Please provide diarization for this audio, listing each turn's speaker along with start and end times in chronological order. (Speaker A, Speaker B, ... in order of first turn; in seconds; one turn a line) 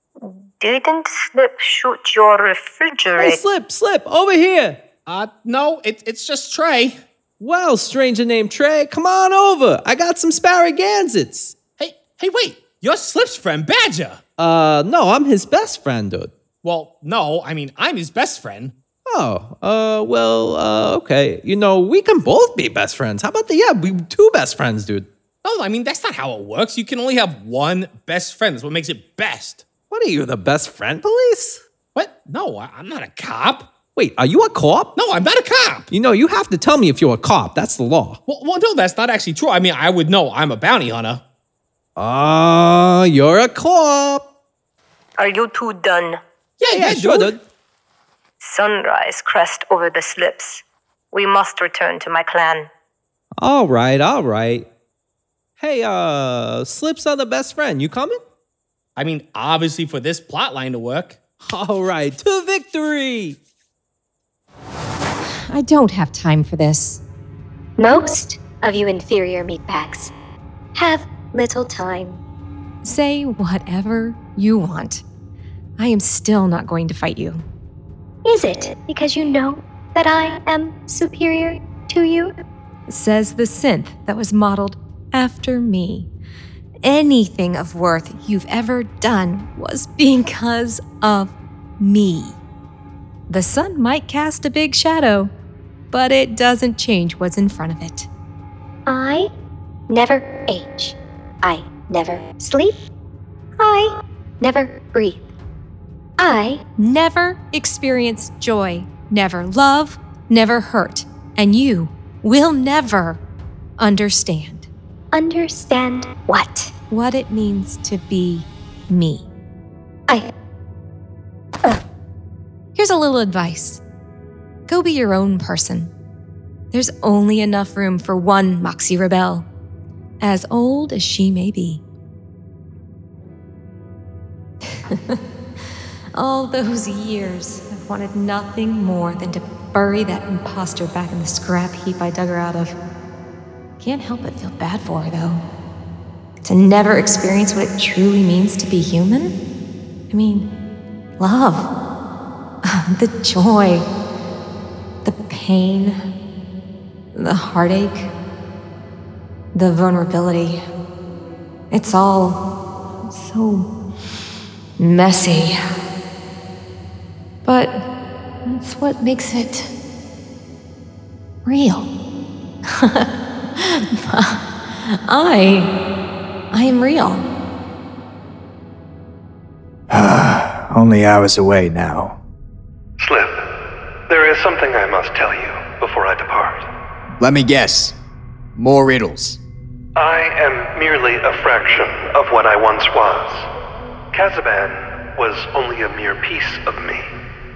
Speaker A: 0.2-3.4
Speaker B: 3.2-4.8
Speaker C: 5.0-7.0
Speaker B: 7.4-11.6
Speaker C: 11.8-14.2
Speaker B: 14.4-16.3
Speaker C: 16.6-18.7
Speaker B: 19.1-25.1
Speaker C: 25.4-29.6
Speaker B: 29.9-31.6
Speaker C: 31.9-33.7
Speaker B: 34.0-34.9
Speaker C: 35.0-35.9
Speaker B: 35.9-38.2
Speaker C: 38.3-41.2
Speaker B: 42.0-44.2
Speaker A: 45.2-46.2
Speaker C: 46.6-47.3
Speaker B: 46.7-47.4
Speaker A: 48.4-52.7
Speaker B: 53.4-54.7
Speaker B: 55.6-58.2
Speaker C: 59.0-61.2
Speaker B: 61.5-63.4
Speaker D: 65.5-67.0
Speaker E: 67.8-70.1
Speaker E: 70.7-72.2
Speaker D: 72.8-75.0
Speaker D: 75.8-77.4
Speaker E: 78.2-82.3
Speaker D: 82.9-86.1
Speaker D: 86.8-92.4
Speaker D: 93.3-95.3
Speaker D: 95.9-98.1
Speaker E: 98.8-99.3
Speaker E: 99.9-102.8
Speaker E: 103.6-105.3
Speaker E: 106.2-106.6
Speaker D: 106.8-113.2
Speaker D: 113.8-114.7
Speaker E: 115.1-116.7
Speaker D: 116.9-119.3
Speaker D: 122.7-123.8
Speaker D: 124.7-125.9
Speaker D: 126.7-129.4
Speaker D: 130.2-131.8
Speaker D: 134.6-135.2
Speaker D: 136.1-142.8
Speaker D: 143.8-145.4
Speaker D: 146.4-149.3
Speaker D: 150.1-150.5
Speaker D: 151.2-151.7
Speaker D: 152.7-153.8
Speaker D: 155.0-156.0
Speaker D: 157.1-158.1
Speaker D: 159.5-160.6
Speaker D: 161.7-162.4
Speaker D: 163.1-163.7
Speaker D: 164.8-165.6
Speaker D: 167.4-167.8
Speaker D: 168.4-169.7
Speaker D: 171.4-171.9
Speaker D: 172.7-175.7
Speaker D: 176.5-177.2
Speaker F: 179.9-182.2
Speaker G: 183.0-183.4
Speaker G: 184.1-186.7
Speaker F: 187.2-187.9
Speaker F: 188.6-189.4
Speaker G: 189.9-193.5
Speaker G: 194.1-197.1